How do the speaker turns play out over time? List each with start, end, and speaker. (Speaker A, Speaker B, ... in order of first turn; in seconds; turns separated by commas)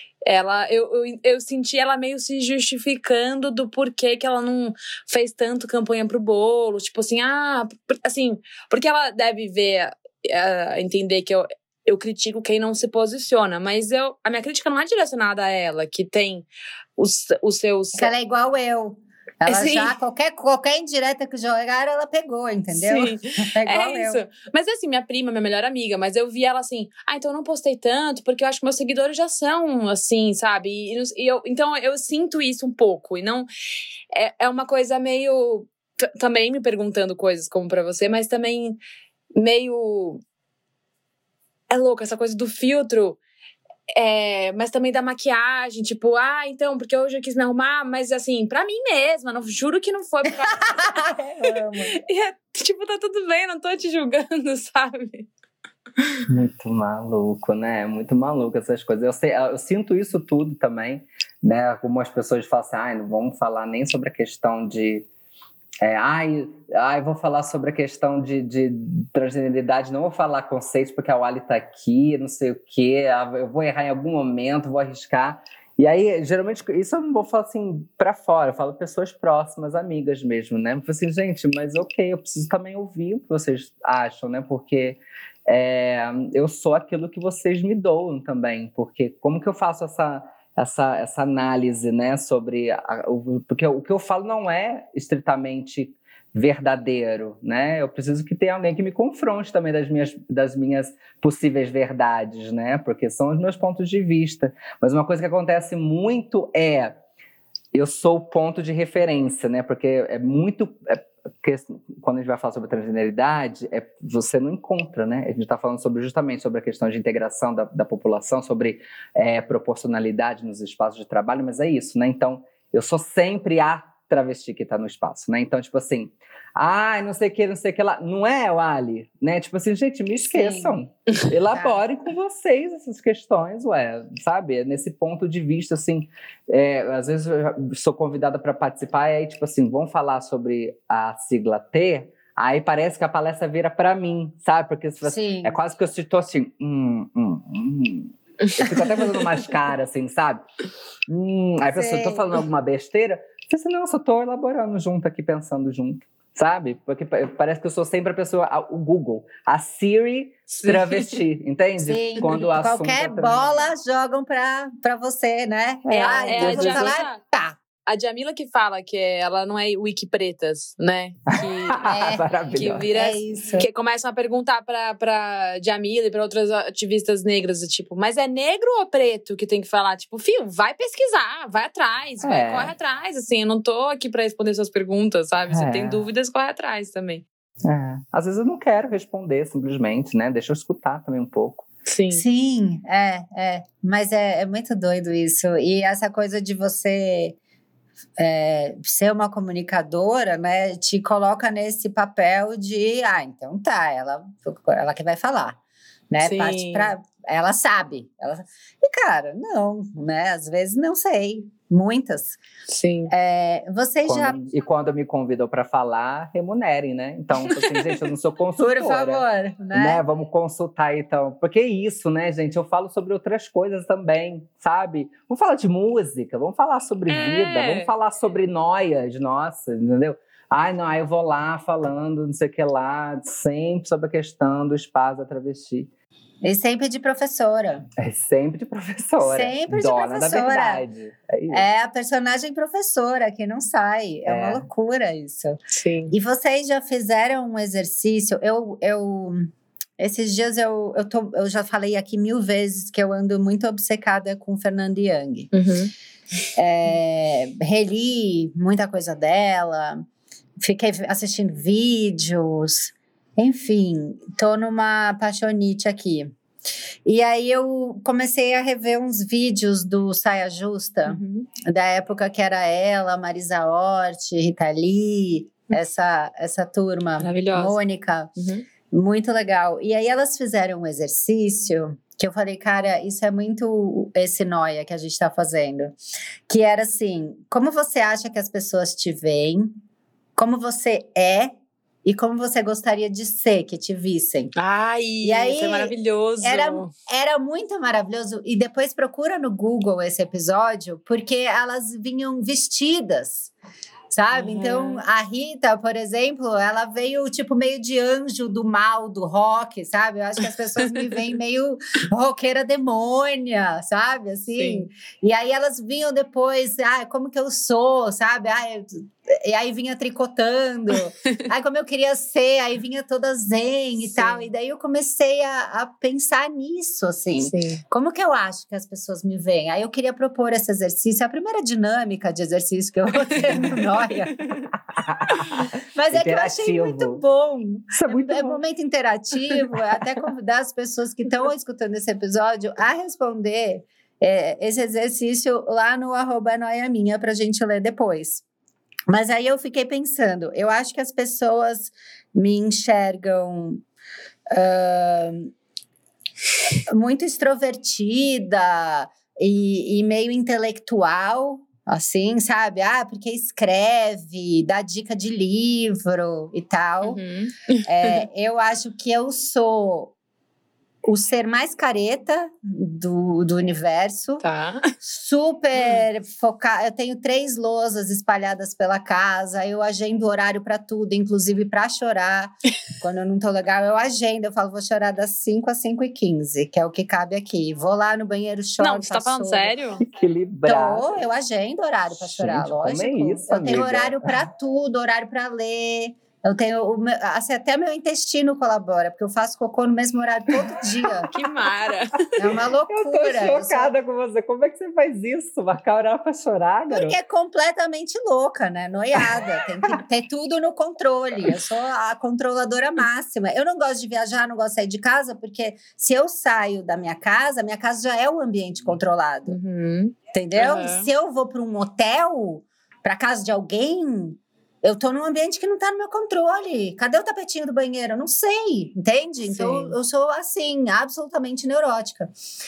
Speaker A: 0.2-18.1, Speaker B: 18.0-24.2, Speaker A: 19.5-19.9, Speaker A: 22.7-33.5, Speaker A: 34.1-38.8, Speaker A: 39.4-40.2, Speaker A: 41.7-43.2, Speaker A: 44.0-55.3, Speaker B: 50.8-52.0, Speaker C: 56.3-65.1, Speaker C: 65.8-107.0, Speaker C: 107.7-150.4, Speaker B: 130.2-130.8, Speaker B: 131.5-131.8, Speaker B: 145.0-145.6, Speaker A: 148.5-149.4, Speaker C: 151.1-163.7, Speaker B: 151.7-152.4, Speaker A: 160.5-161.2, Speaker B: 161.8-167.6, Speaker A: 165.9-167.2, Speaker C: 166.3-166.9, Speaker A: 167.9-171.8, Speaker C: 171.3-172.9, Speaker B: 171.8-172.3, Speaker A: 172.5-187.2, Speaker B: 172.9-173.7, Speaker C: 182.2-182.7, Speaker C: 185.5-186.1, Speaker C: 187.7-191.7, Speaker A: 191.9-192.2, Speaker B: 192.1-197.4, Speaker B: 198.2-205.6, Speaker B: 206.1-212.4, Speaker A: 206.2-206.9, Speaker A: 212.7-213.1, Speaker B: 213.1-214.4, Speaker C: 214.1-235.9, Speaker A: 217.4-218.0, Speaker B: 218.6-220.0, Speaker A: 227.1-227.9, Speaker B: 236.4-237.9, Speaker C: 238.0-241.7, Speaker B: 239.2-240.9, Speaker B: 241.5-245.6, Speaker C: 244.3-244.7, Speaker A: 245.7-246.1, Speaker B: 246.1-255.5, Speaker A: 255.5-255.9, Speaker B: 256.6-260.1, Speaker B: 260.6-266.3, Speaker B: 267.1-278.3, Speaker A: 271.1-271.5, Speaker A: 277.2-277.8, Speaker A: 278.4-278.7, Speaker B: 278.9-285.9, Speaker B: 286.5-289.8, Speaker B: 290.4-291.5, Speaker B: 292.0-294.5, Speaker A: 294.6-296.9, Speaker B: 295.2-303.5, Speaker B: 304.1-334.4, Speaker A: 304.3-305.0, Speaker A: 314.6-314.9, Speaker A: 324.2-324.5, Speaker A: 327.4-327.8, Speaker A: 333.8-334.7, Speaker C: 334.9-337.2, Speaker B: 335.9-348.4, Speaker C: 337.9-338.6, Speaker B: 349.1-353.8, Speaker B: 354.5-355.5, Speaker B: 356.9-367.2, Speaker A: 367.0-368.2, Speaker B: 367.9-370.1, Speaker B: 371.1-374.4, Speaker A: 374.4-374.9, Speaker B: 375.0-389.8, Speaker A: 388.8-390.0, Speaker C: 390.0-391.2, Speaker B: 390.6-401.3, Speaker C: 392.1-394.5, Speaker A: 401.3-402.4, Speaker B: 402.4-403.9, Speaker C: 402.9-407.2, Speaker B: 406.9-419.6, Speaker A: 419.5-421.1, Speaker B: 420.3-432.3, Speaker A: 429.5-430.0